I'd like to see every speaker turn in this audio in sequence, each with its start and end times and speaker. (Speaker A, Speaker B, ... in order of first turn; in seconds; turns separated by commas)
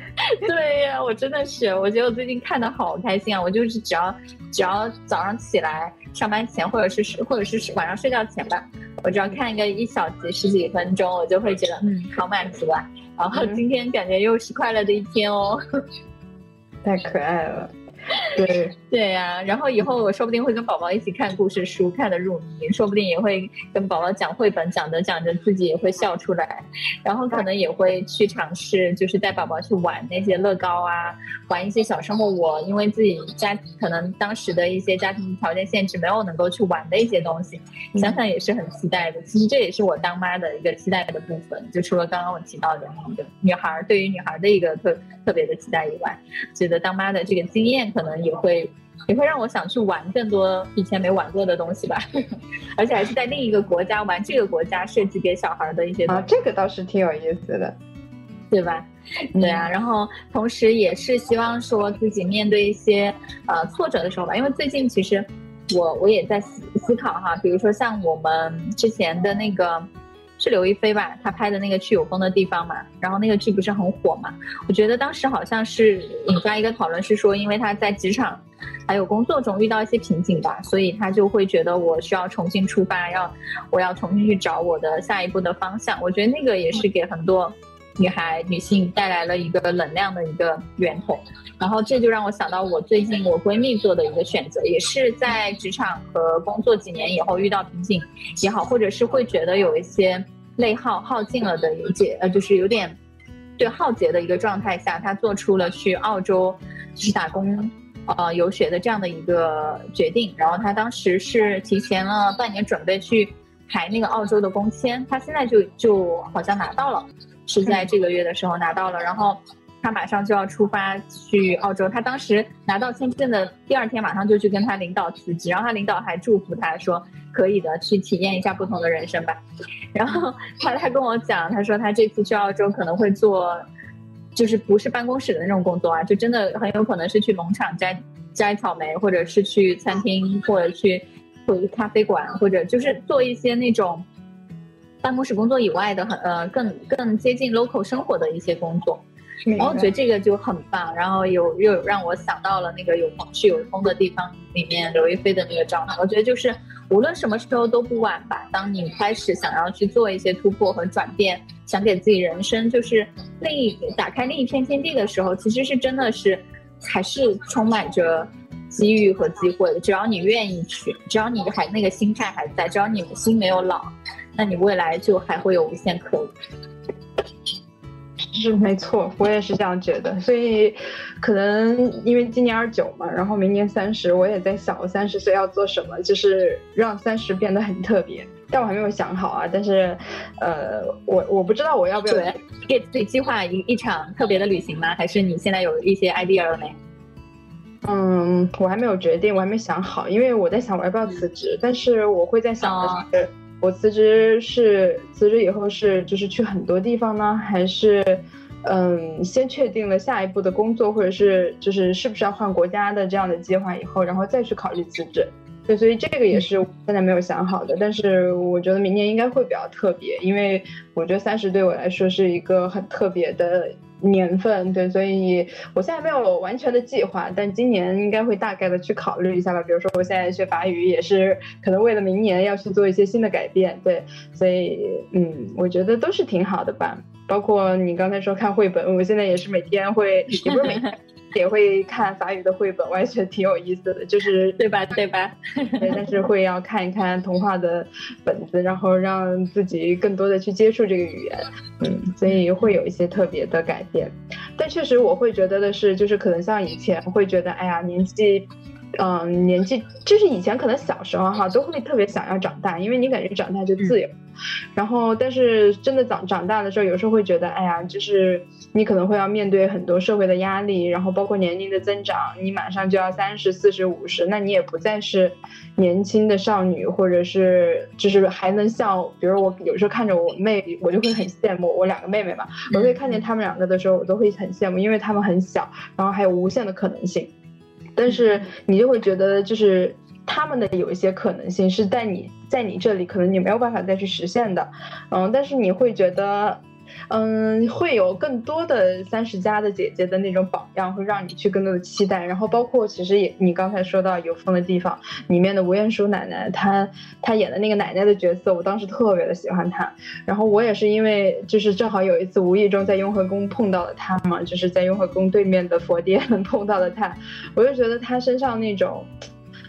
Speaker A: 0.2-15.6, Speaker B: 13.3-13.6, Speaker B: 16.8-17.7, Speaker B: 18.3-18.7, Speaker A: 18.9-52.0, Speaker B: 38.0-38.2, Speaker A: 52.8-56.3, Speaker B: 56.1-57.8, Speaker A: 58.5-103.0, Speaker B: 59.4-59.7, Speaker A: 103.6-129.4, Speaker A: 129.9-133.6, Speaker A: 134.3-144.1, Speaker A: 145.0-149.0, Speaker B: 149.5-149.9, Speaker A: 149.6-176.3, Speaker B: 178.3-192.4, Speaker A: 192.1-196.8, Speaker B: 197.8-244.6, Speaker A: 202.6-203.1, Speaker A: 240.4-240.9, Speaker A: 244.6-246.0, Speaker B: 245.8-264.1, Speaker B: 264.8-287.3, Speaker A: 282.7-283.2, Speaker B: 288.0-319.1